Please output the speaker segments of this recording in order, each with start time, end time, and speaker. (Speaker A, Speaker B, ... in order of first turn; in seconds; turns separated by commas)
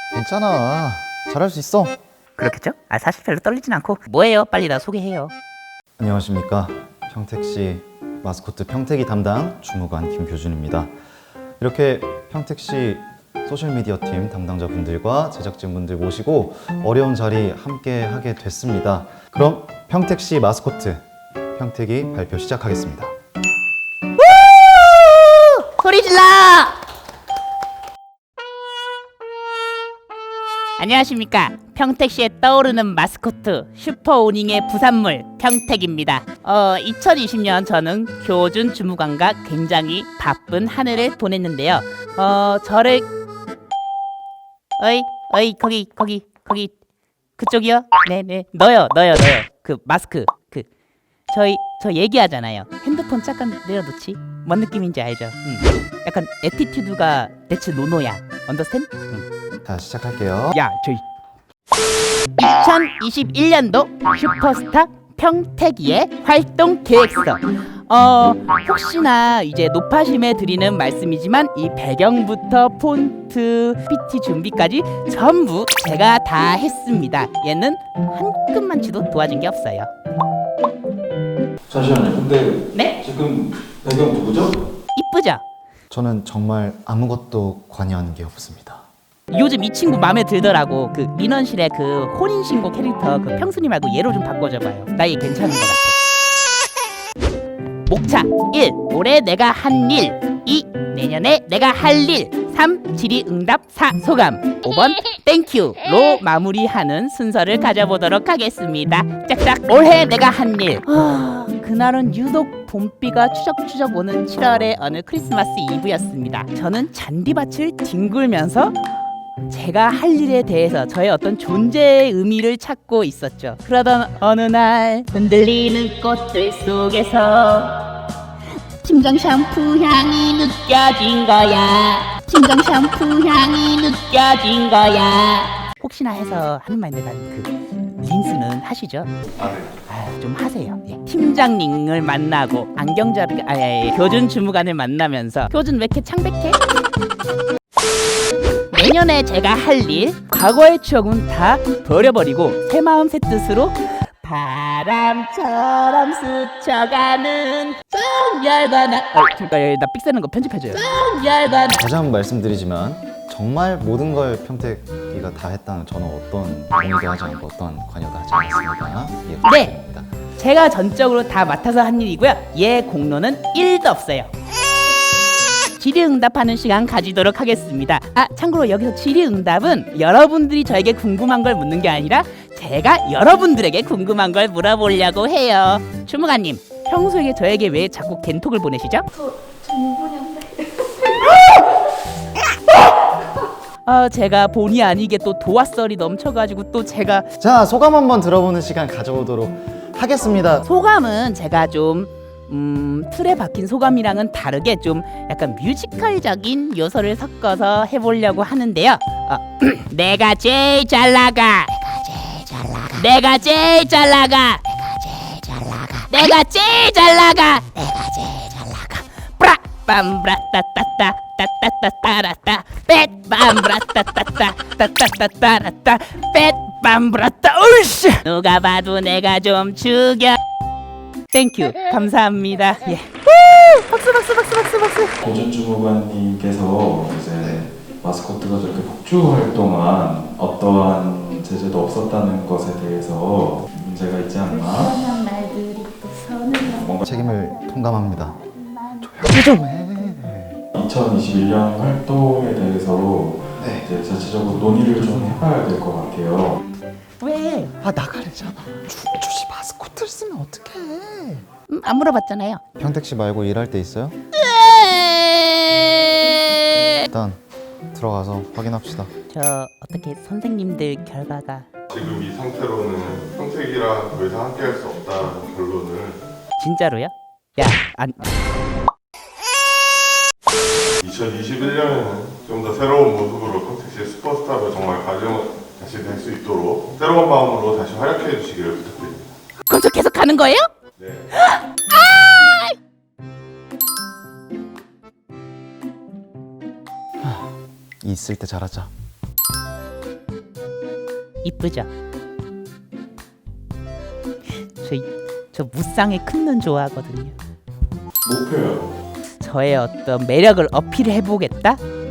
Speaker A: 0.1-2.0, Speaker B: 2.4-5.3, Speaker A: 6.0-10.9, Speaker A: 11.6-21.0, Speaker A: 21.5-23.1, Speaker B: 24.2-26.8, Speaker B: 30.8-43.1, Speaker B: 44.8-46.7, Speaker B: 47.4-50.7, Speaker B: 51.3-59.2, Speaker A: 59.6-60.6, Speaker B: 60.5-61.0, Speaker B: 62.4-79.9, Speaker C: 81.7-84.6, Speaker B: 84.9-85.4, Speaker A: 85.9-88.8, Speaker B: 89.3-96.0, Speaker B: 97.8-118.8, Speaker B: 119.5-127.8, Speaker B: 128.8-139.1, Speaker D: 139.4-139.7, Speaker B: 139.8-146.6, Speaker B: 148.7-161.8, Speaker A: 161.7-170.1, Speaker B: 169.4-169.7, Speaker B: 170.4-174.3, Speaker B: 175.8-189.1, Speaker B: 189.7-190.4, Speaker B: 193.8-197.3, Speaker A: 197.4-200.6, Speaker B: 200.6-230.4, Speaker B: 231.3-235.2, Speaker C: 235.2-244.9, Speaker B: 244.5-246.8, Speaker C: 246.7-247.0, Speaker A: 247.0-248.4, Speaker B: 248.5-249.1, Speaker A: 249.0-250.6, Speaker C: 250.7-256.6, Speaker A: 253.6-253.9, Speaker A: 254.9-255.4, Speaker B: 257.2-257.7, Speaker A: 257.8-261.4, Speaker B: 261.7-262.6, Speaker A: 262.8-264.1, Speaker B: 264.4-267.1, Speaker A: 267.1-267.4, Speaker A: 267.9-269.1, Speaker B: 269.3-271.7, Speaker D: 271.9-276.2, Speaker B: 276.6-278.4, Speaker D: 281.0-289.2, Speaker B: 289.6-290.6, Speaker D: 291.0-291.3, Speaker B: 291.3-292.7, Speaker A: 297.2-298.9, Speaker B: 301.4-301.9, Speaker B: 304.8-307.3, Speaker C: 308.2-308.9, Speaker B: 309.4-311.8